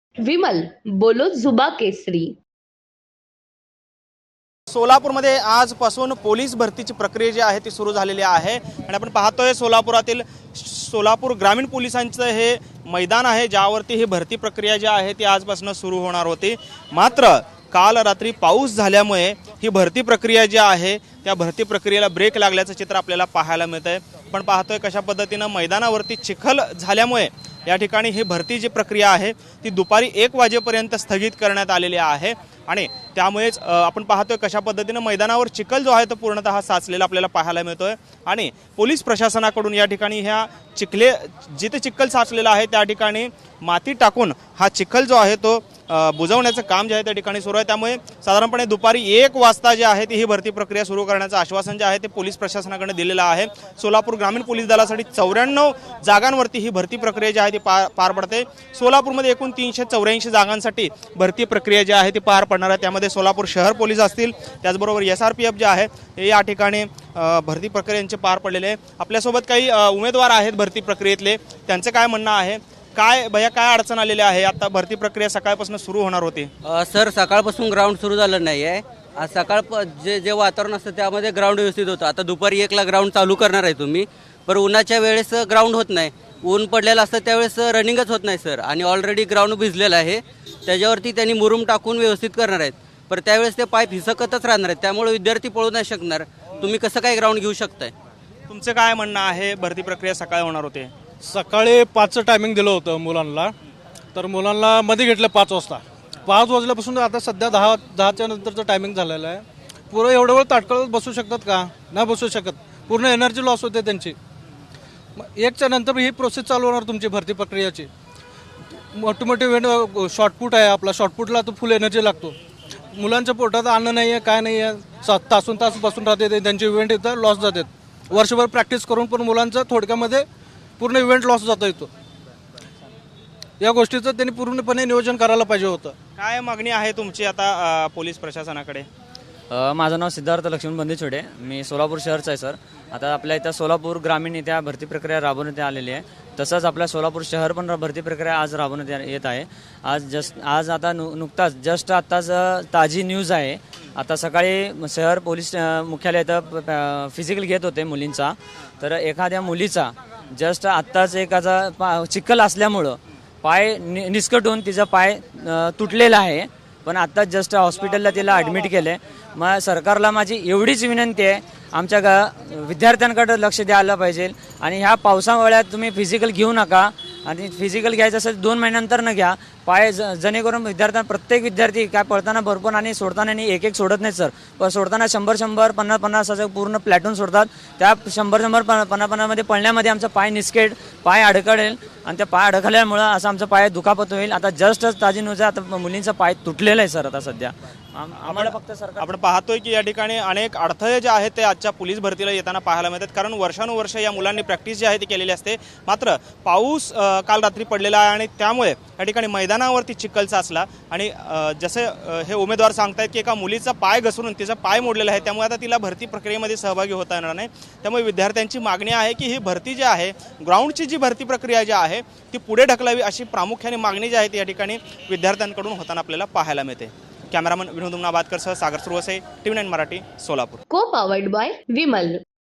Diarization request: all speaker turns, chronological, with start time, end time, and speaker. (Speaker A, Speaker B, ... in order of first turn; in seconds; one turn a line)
Speaker A: 0.2-2.4
Speaker B: 4.7-76.5
Speaker C: 76.6-97.9
Speaker B: 98.5-100.9
Speaker D: 101.2-103.5
Speaker D: 104.1-114.2
Speaker D: 115.2-117.9
Speaker D: 118.9-122.4
Speaker D: 122.9-130.3
Speaker D: 130.8-131.9
Speaker D: 133.6-136.0
Speaker B: 136.2-138.9
Speaker E: 139.5-199.2
Speaker B: 198.2-230.6
Speaker A: 230.7-232.2